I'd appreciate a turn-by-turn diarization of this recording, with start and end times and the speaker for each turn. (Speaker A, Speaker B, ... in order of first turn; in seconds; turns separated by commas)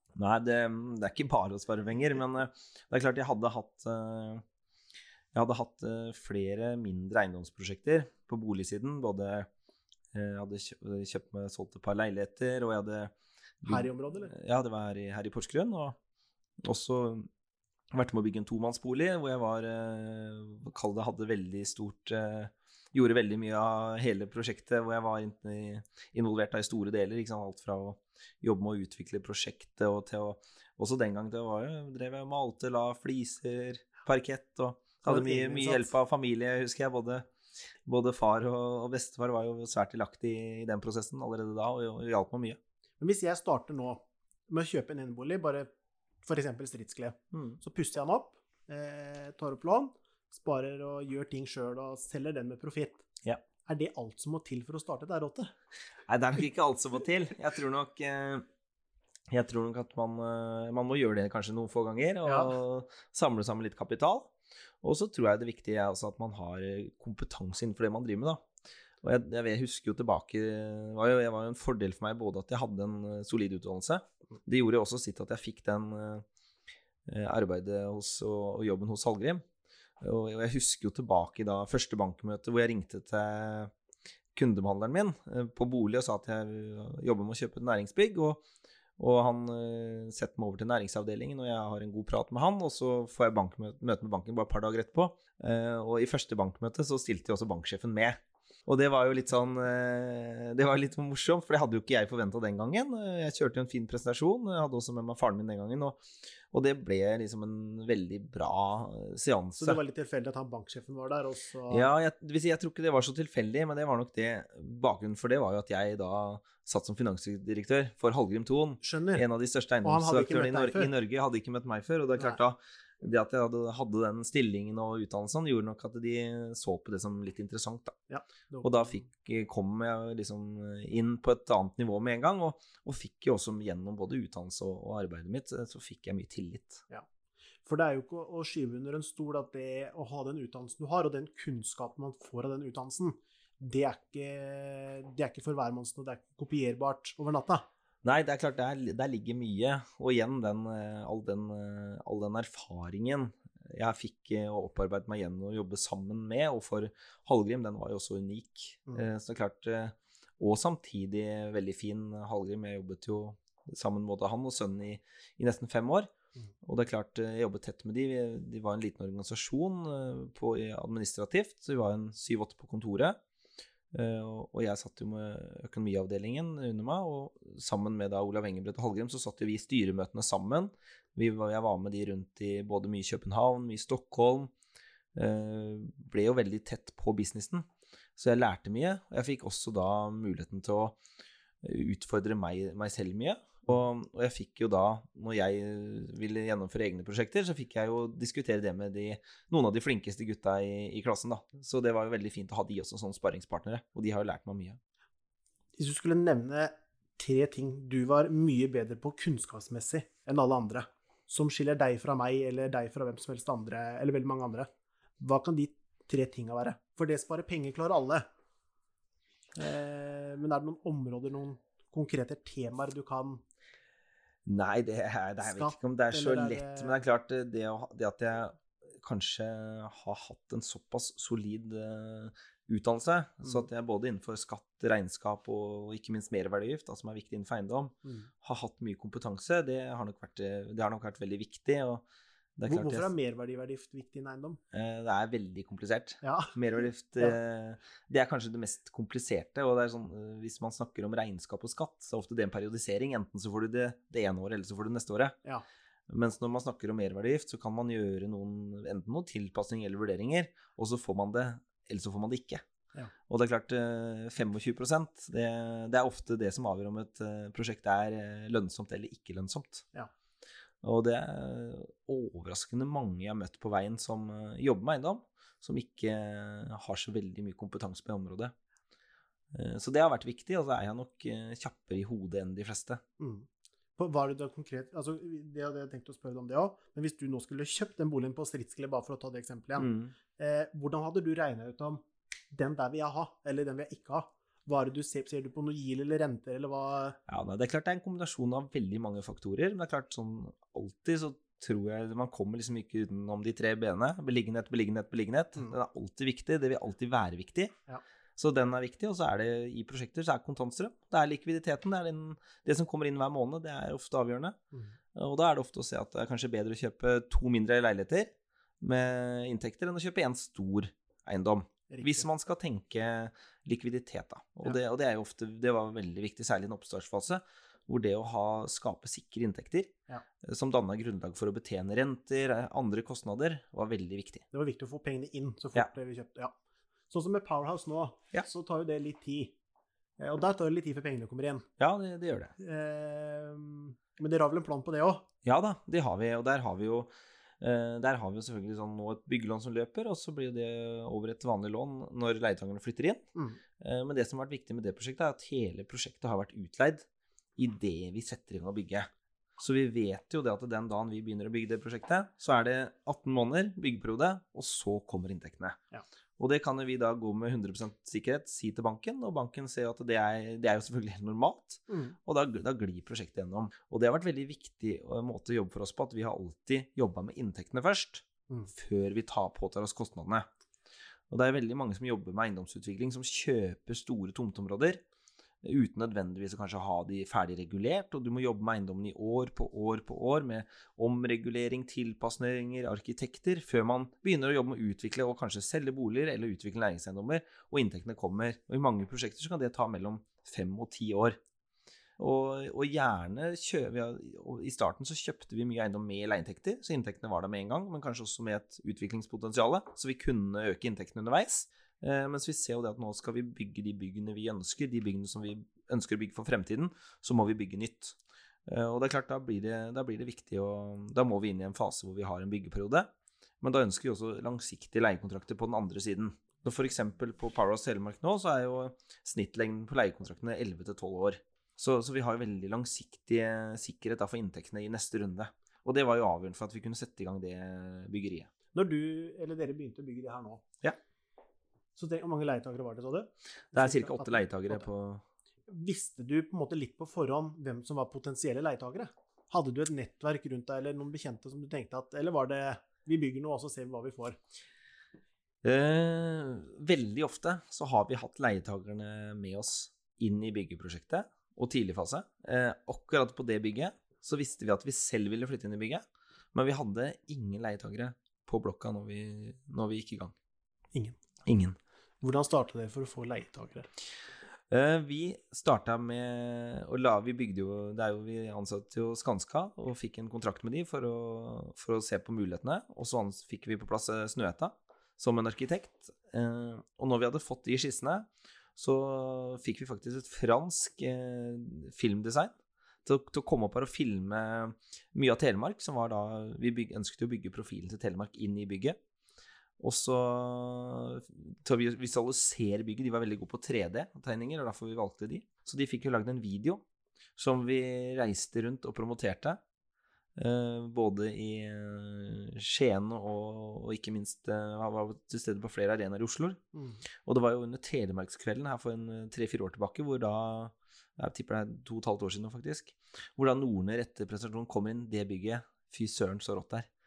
Speaker A: 0.2-4.4, Speaker A: 5.3-9.5, Speaker A: 10.1-16.0, Speaker B: 13.7-14.3, Speaker A: 16.6-17.3, Speaker A: 17.9-37.3, Speaker B: 35.0-35.9, Speaker A: 37.9-42.6, Speaker B: 43.0-45.7, Speaker B: 46.2-53.0, Speaker A: 47.3-47.6, Speaker B: 53.6-55.5, Speaker A: 56.1-58.5, Speaker A: 59.3-64.3, Speaker B: 62.2-62.5, Speaker A: 64.8-68.5, Speaker A: 69.0-76.2, Speaker A: 77.1-79.4, Speaker A: 80.0-83.7, Speaker A: 84.3-88.4, Speaker A: 89.0-109.8, Speaker B: 109.6-111.9, Speaker A: 111.7-128.0, Speaker B: 118.8-119.2, Speaker B: 119.8-120.9, Speaker B: 128.1-129.0, Speaker A: 128.6-136.8, Speaker B: 137.7-147.7, Speaker A: 148.0-166.1, Speaker A: 166.6-173.2, Speaker A: 173.9-184.5, Speaker A: 185.2-191.0, Speaker A: 191.6-204.8, Speaker B: 205.8-214.7, Speaker B: 215.2-218.2, Speaker B: 219.6-223.4, Speaker A: 224.5-242.0, Speaker B: 225.4-227.0, Speaker B: 238.0-238.3, Speaker A: 242.6-243.1, Speaker B: 242.7-244.6, Speaker A: 244.7-255.4, Speaker B: 246.2-246.5, Speaker A: 256.1-262.6, Speaker A: 263.3-269.9, Speaker A: 270.8-278.5, Speaker A: 279.5-283.0, Speaker B: 283.2-297.2, Speaker A: 289.8-290.1, Speaker A: 297.3-307.7, Speaker A: 308.4-314.6, Speaker A: 315.1-334.4, Speaker B: 321.9-322.3, Speaker B: 334.5-336.6, Speaker B: 337.1-339.6, Speaker B: 340.2-341.7, Speaker A: 341.8-342.5, Speaker B: 342.6-345.3, Speaker A: 345.4-353.2, Speaker B: 353.4-353.6, Speaker A: 353.8-357.1, Speaker A: 357.6-365.8, Speaker A: 366.4-380.5, Speaker B: 371.9-372.2, Speaker A: 381.3-385.0, Speaker A: 385.6-401.4, Speaker A: 402.2-423.1, Speaker A: 423.6-438.5, Speaker B: 438.7-440.6, Speaker B: 442.0-444.9, Speaker A: 443.7-445.2, Speaker B: 445.7-454.4, Speaker A: 455.6-466.0, Speaker A: 466.5-470.3, Speaker A: 471.4-471.8, Speaker B: 472.2-473.9, Speaker A: 474.7-499.0, Speaker A: 499.8-506.8, Speaker A: 507.4-509.6, Speaker A: 510.4-516.6, Speaker B: 516.7-517.0, Speaker A: 517.2-526.9